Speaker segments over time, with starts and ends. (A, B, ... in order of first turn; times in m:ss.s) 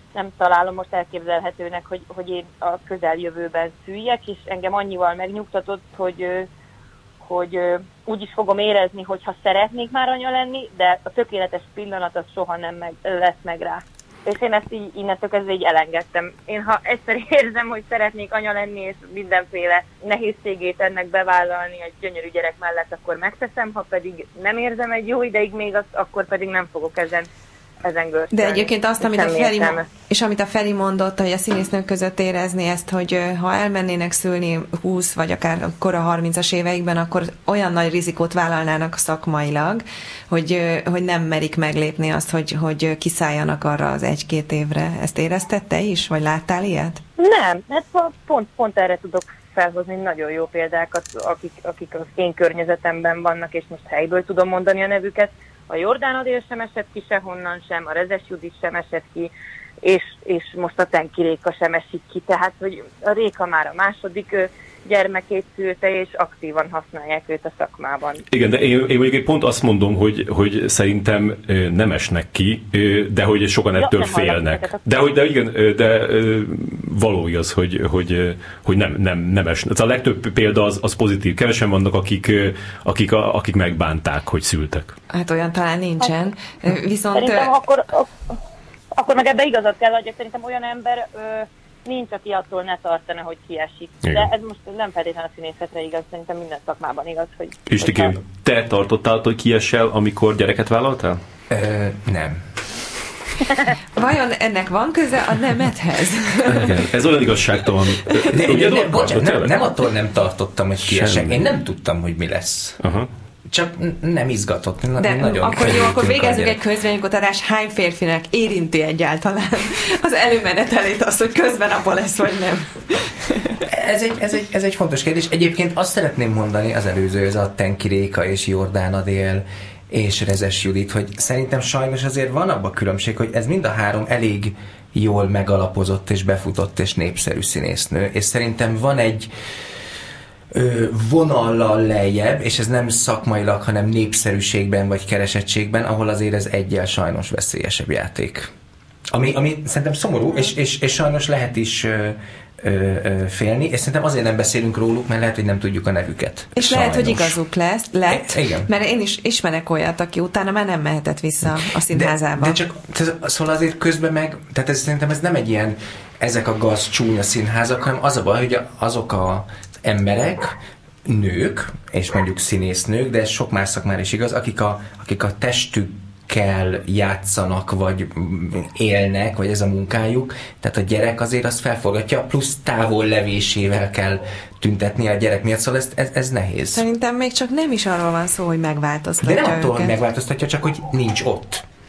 0:00.1-0:06.5 A
0:07.2-0:27.3 A
0:27.8-0:29.9 A
0:28.3-0:47.0 B
0:47.2-0:59.3 A
0:59.8-1:08.2 A
1:08.3-1:25.0 C
1:13.8-1:14.8 A
1:25.1-1:27.5 B
1:27.2-1:28.2 A
1:29.0-1:38.2 A
1:37.7-1:41.2 C
1:41.5-1:42.4 D
1:44.0-1:46.7 B
1:46.5-1:49.5 C
1:48.3-1:52.8 D
1:50.9-1:51.4 C
1:52.8-1:53.1 C
1:53.5-1:56.6 D
1:55.0-2:03.6 B
2:03.6-2:19.3 D
2:20.5-2:28.5 D
2:29.1-2:37.4 D
2:36.5-2:42.6 B
2:38.1-2:38.7 D
2:41.9-3:06.8 D
3:06.7-3:10.0 B
3:09.2-3:11.6 D